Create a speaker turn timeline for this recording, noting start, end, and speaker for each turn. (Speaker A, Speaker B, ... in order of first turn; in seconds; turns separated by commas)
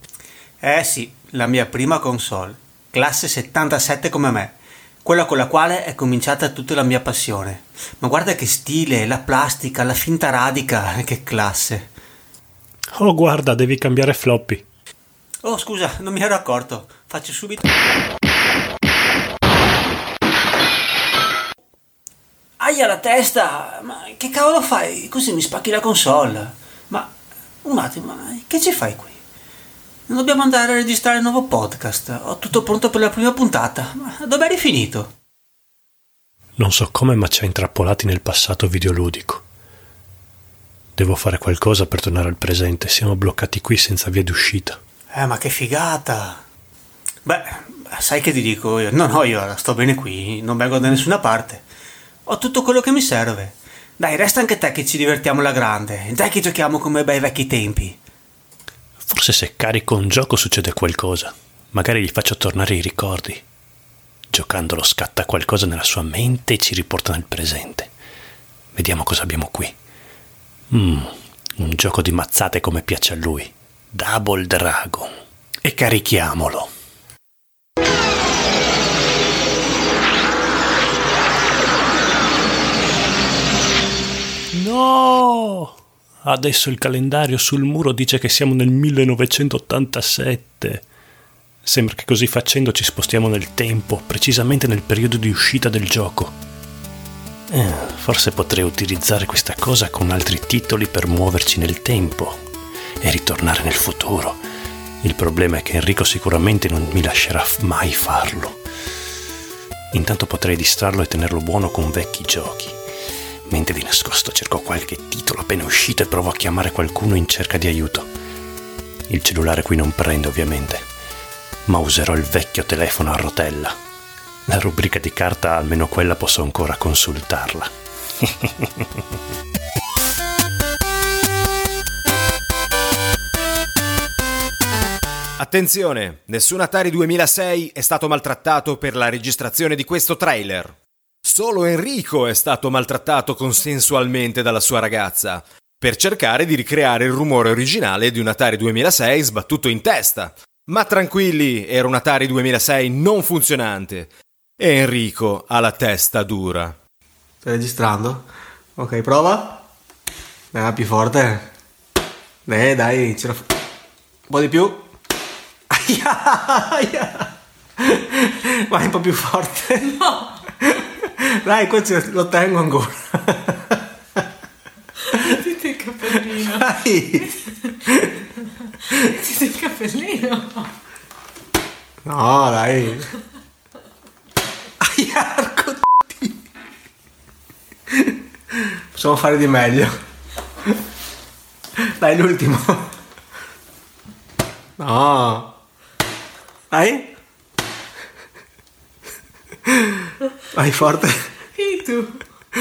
Speaker A: 0.6-11.9, Speaker B: 12.9-14.6, Speaker A: 15.4-17.7, Speaker A: 22.6-29.2, Speaker A: 30.1-35.1, Speaker B: 36.6-39.4, Speaker B: 41.0-44.8, Speaker A: 45.1-46.4, Speaker A: 47.2-51.6, Speaker A: 52.2-58.0, Speaker B: 59.0-63.4, Speaker B: 64.3-67.9, Speaker B: 68.7-69.7, Speaker B: 70.7-75.1, Speaker B: 75.6-76.7, Speaker B: 84.5-90.8, Speaker B: 91.6-96.3, Speaker B: 97.5-102.4, Speaker B: 103.0-104.4, Speaker B: 105.0-108.6, Speaker B: 109.9-112.8, Speaker B: 113.4-118.1, Speaker B: 119.1-120.8, Speaker B: 121.7-123.7, Speaker B: 124.5-127.7, Speaker C: 135.4-156.8, Speaker A: 157.4-158.2, Speaker A: 158.8-159.6, Speaker A: 160.5-161.5, Speaker A: 162.5-163.4, Speaker A: 164.3-164.8, Speaker A: 165.7-167.2, Speaker A: 167.9-169.9, Speaker A: 171.4-173.6, Speaker D: 175.3-176.7, Speaker A: 176.4-177.2, Speaker D: 179.2-180.7, Speaker A: 182.1-183.1, Speaker A: 184.8-186.2, Speaker A: 188.9-189.9, Speaker A: 192.0-192.9, Speaker A: 194.8-195.5, Speaker A: 196.7-197.1, Speaker A: 200.6-201.1, Speaker D: 201.6-202.2